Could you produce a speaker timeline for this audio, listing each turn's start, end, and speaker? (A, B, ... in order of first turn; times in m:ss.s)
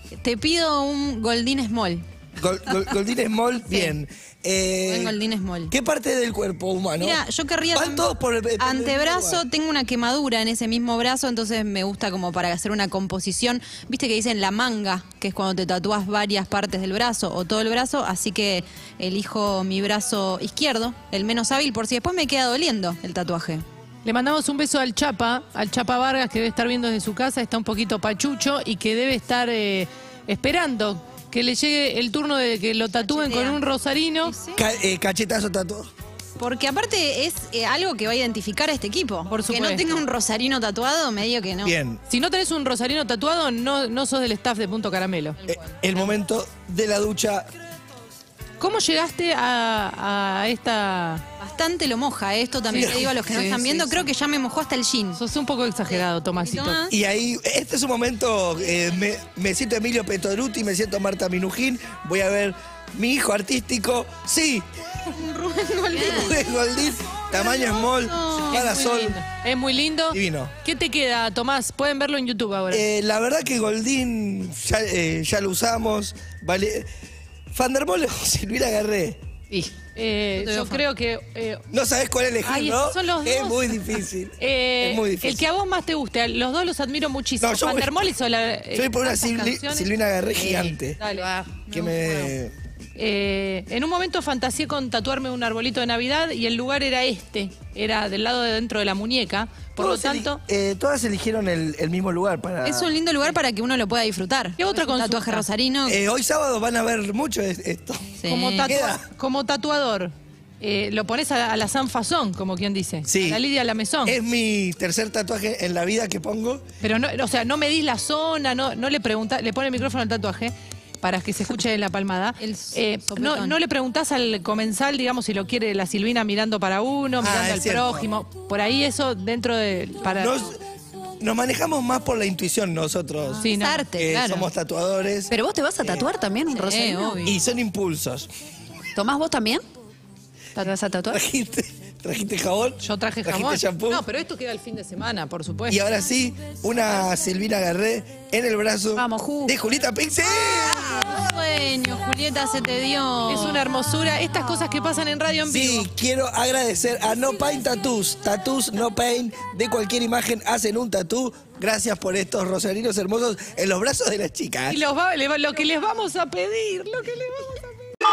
0:00.2-0:02.0 A
0:02.4-0:07.2 B
0:04.8-0:05.7 A
0:07.0-0:08.1 A
0:07.7-0:09.4 B
0:08.6-0:23.6 A
0:24.0-0:34.3 C
0:33.1-0:33.6 A
0:34.3-0:34.6 A
0:34.6-0:35.9 B
0:36.4-0:41.7 A
0:39.3-0:39.9 C
0:41.6-0:42.0 B
0:42.1-0:45.4 C
0:45.4-0:47.5 B
0:48.6-0:51.2 C
0:51.4-0:55.2 A
0:52.7-0:53.4 B
0:52.7-0:54.1 C
0:53.4-0:53.8 D
0:55.1-0:56.8 C
0:56.5-0:56.9 A
0:56.9-1:04.6 B
1:05.1-1:06.4 A
1:05.9-1:09.2 B
1:07.4-1:08.6 A
1:08.4-1:12.8 C
1:10.1-1:10.5 B
1:12.7-1:16.9 B
1:17.5-1:19.2 B
1:20.0-1:21.6 C
1:20.4-1:20.8 A
1:21.7-1:25.4 B
1:22.4-1:29.9 C
1:27.4-1:28.0 B
1:28.7-1:31.0 B
1:30.3-1:31.6 D
1:31.0-1:31.3 C
1:31.7-1:32.5 B
1:33.0-1:40.4 C
1:39.8-1:43.0 B
1:42.6-1:45.9 A
1:44.6-1:45.4 C
1:45.8-1:49.0 B
1:48.2-1:48.7 A
1:48.2-1:54.2 C
1:53.0-1:53.4 B
1:54.0-1:56.6 B
1:56.8-2:10.3 C
2:02.4-2:03.6 A
2:07.2-2:08.1 B
2:10.2-2:10.6 B
2:11.2-2:16.1 B
2:13.4-2:13.9 C
2:13.4-2:14.4 A
2:15.3-2:17.3 D
2:16.6-2:16.9 A
2:17.2-2:18.3 B
2:18.9-2:19.6 D
2:20.6-2:21.2 D
2:21.1-2:24.0 B
2:22.8-2:25.8 C
2:25.7-2:31.1 B
2:29.0-2:29.5 D
2:30.8-2:33.6 A
2:33.3-2:35.9 C
2:35.4-2:44.8 B
2:44.7-2:47.8 C